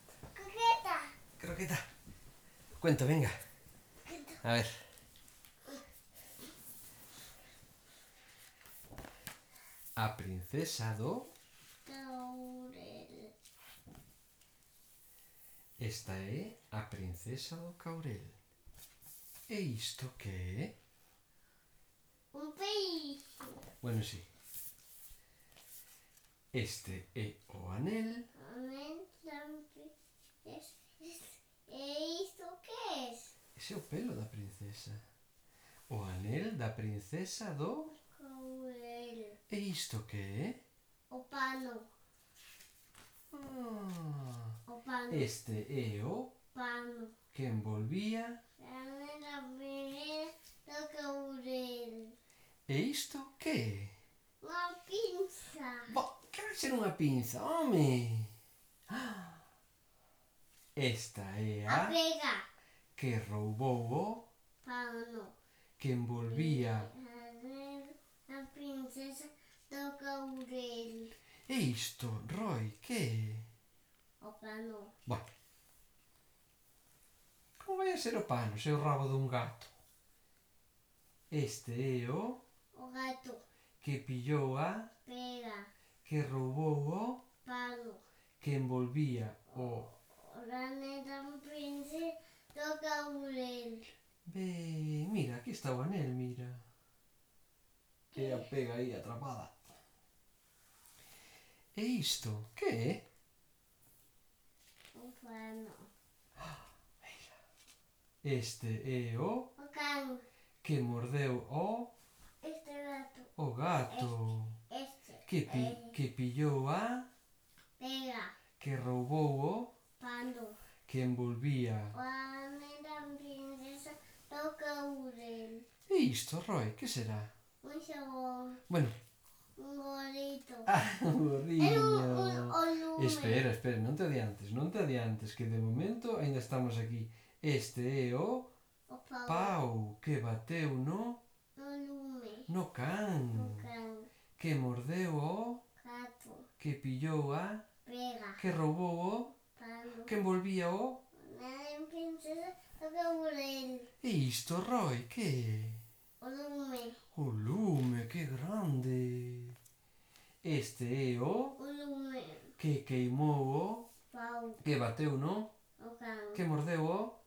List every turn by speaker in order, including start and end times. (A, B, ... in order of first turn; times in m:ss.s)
0:00.3-0:01.2 A
0:01.4-0:01.9 B
0:02.8-0:03.4 B
0:04.0-0:04.4 A
0:04.4-0:04.8 B
0:10.0-0:11.3 B
0:11.8-0:13.3 A
0:15.8-0:18.4 B
0:19.5-0:20.8 B
0:22.3-0:23.6 A
0:23.8-0:24.3 B
0:26.5-0:28.3 B
0:28.3-0:33.3 A
0:33.6-0:35.0 B
0:35.9-0:37.9 B
0:37.9-0:39.4 A
0:39.5-0:40.6 B
0:41.1-0:41.9 A
0:43.3-0:44.6 B
0:44.6-0:45.3 A
0:45.1-0:46.3 B
0:46.5-0:47.2 A
0:47.3-0:48.4 B
0:48.6-0:52.1 A
0:52.7-0:54.0 B
0:54.4-0:56.0 A
0:55.9-0:58.3 B
0:58.9-0:59.4 B
1:00.7-1:02.0 B
1:01.7-1:02.5 A
1:03.0-1:04.3 B
1:04.6-1:05.3 A
1:05.8-1:06.9 B
1:06.2-1:11.1 A
1:11.5-1:13.5 B
1:14.2-1:14.9 A
1:17.6-1:19.7 B
1:21.3-1:22.4 B
1:22.7-1:23.4 A
1:23.8-1:24.9 B
1:25.0-1:25.7 A
1:26.0-1:27.2 B
1:27.4-1:28.0 A
1:28.4-1:29.9 B
1:29.5-1:33.9 A
1:34.2-1:36.6 B
1:38.1-1:38.5 A
1:38.1-1:39.7 B
1:41.7-1:43.0 B
1:45.0-1:45.9 A
1:46.4-1:47.3 B
1:48.2-1:49.5 B
1:49.6-1:50.2 A
1:50.6-1:51.9 B
1:52.4-1:53.3 A
1:53.4-1:54.6 B
1:54.7-1:56.0 A
1:55.2-1:57.1 B
1:57.8-1:58.4 A
1:58.6-1:59.7 B
2:00.0-2:00.6 A
2:00.9-2:02.0 B
2:01.9-2:05.6 A
2:05.9-2:07.3 B
2:07.6-2:08.6 A
2:08.7-2:09.0 B
2:09.6-2:10.7 A
2:10.7-2:18.5 B
2:11.6-2:13.5 A
2:18.9-2:19.6 A
2:19.3-2:21.2 B
2:21.6-2:22.5 A
2:22.5-2:23.7 B
2:23.3-2:24.1 A
2:24.4-2:25.6 B
2:25.8-2:26.5 A
2:26.6-2:27.6 B
2:27.8-2:28.4 A
2:28.4-2:29.4 B
2:29.5-2:30.1 A
2:30.1-2:31.0 B
2:31.1-2:33.9 A
2:34.0-2:35.8 B
2:36.2-2:37.0 A
2:37.1-2:39.6 B
2:40.4-2:41.6 B
2:41.6-2:42.6 A
2:42.6-2:43.9 B
2:44.1-2:44.6 A
2:44.6-2:45.5 B
2:45.8-2:46.5 A
2:46.3-2:47.2 B